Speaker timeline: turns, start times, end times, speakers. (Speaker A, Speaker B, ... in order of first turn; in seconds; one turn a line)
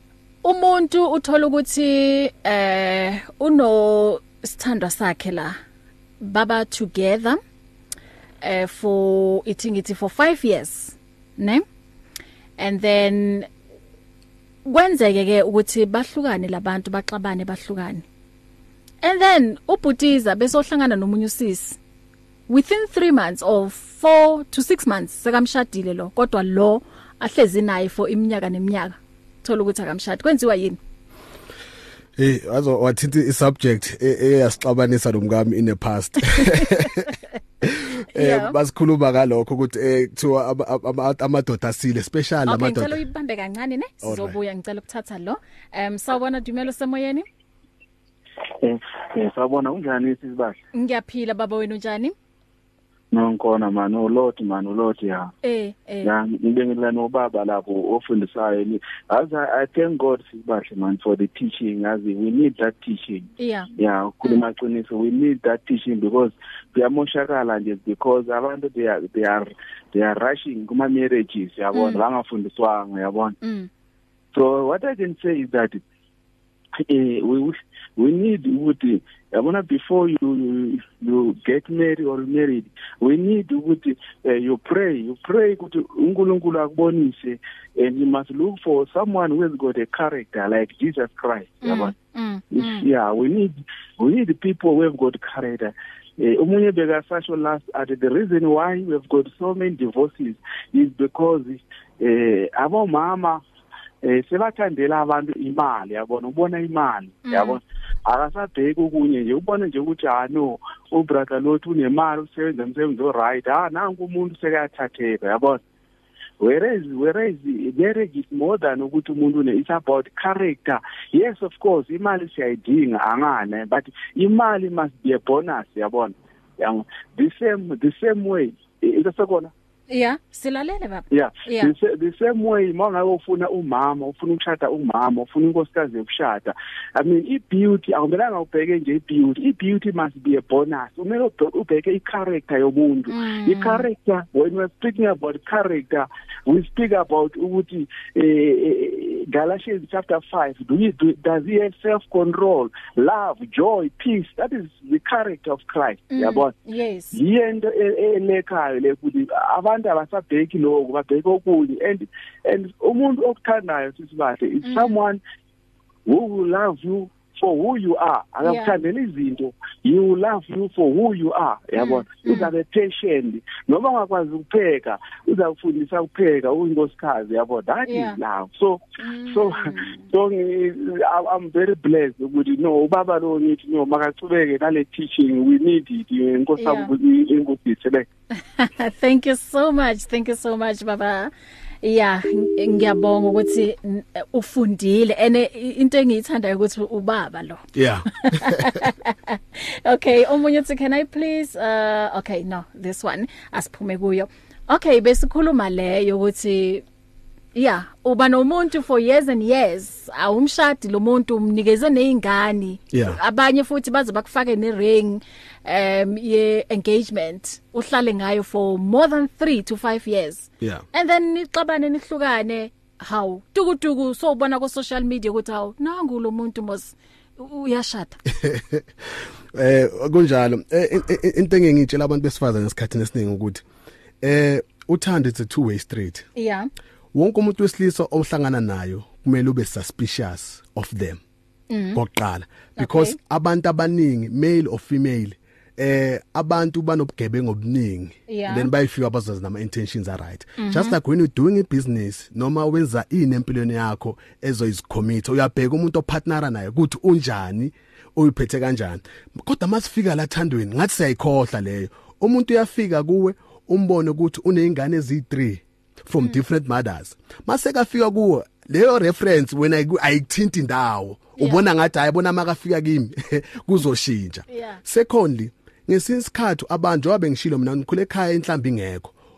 Speaker A: 0.4-5.6
Speaker A: 6.2-7.4
Speaker A: 8.4-11.6
Speaker A: 12.6-13.5
Speaker A: 14.6-18.0
Speaker A: 19.0-21.8
Speaker A: 22.5-30.8
Speaker B: 32.2-43.0
Speaker A: 36.3-37.1
Speaker A: 38.1-38.6
Speaker A: 42.5-47.2
Speaker B: 44.0-44.4
Speaker C: 48.6-50.5
Speaker A: 50.7-52.1
Speaker C: 53.1-55.3
Speaker A: 55.4-56.1
Speaker C: 56.0-63.2
Speaker A: 63.4-63.7
Speaker C: 63.8-73.3
Speaker A: 71.7-72.0
Speaker A: 73.4-73.7
Speaker C: 74.3-75.8
Speaker C: 76.8-91.9
Speaker A: 91.6-92.9
Speaker C: 92.5-103.4
Speaker C: 104.0-115.6
Speaker A: 107.2-107.6
Speaker C: 116.4-129.5
Speaker A: 129.9-131.7
Speaker C: 131.1-156.5
Speaker A: 143.1-143.8
Speaker A: 156.1-157.2
Speaker C: 157.1-165.2
Speaker A: 164.6-164.9
Speaker C: 166.1-188.1
Speaker A: 168.4-168.8
Speaker A: 171.8-172.5
Speaker A: 177.8-178.2
Speaker A: 179.0-180.0
Speaker A: 186.6-186.9
Speaker A: 188.5-191.3
Speaker A: 191.8-197.6
Speaker B: 197.7-198.8
Speaker A: 198.2-206.8
Speaker A: 207.5-228.2
Speaker B: 212.9-213.2
Speaker B: 228.3-228.8
Speaker B: 229.5-233.6
Speaker B: 234.2-236.2
Speaker A: 236.3-236.7
Speaker B: 237.1-241.2
Speaker A: 241.7-242.0
Speaker B: 241.9-279.1
Speaker A: 242.8-243.2
Speaker A: 248.3-248.7
Speaker A: 250.6-250.9
Speaker A: 274.5-274.8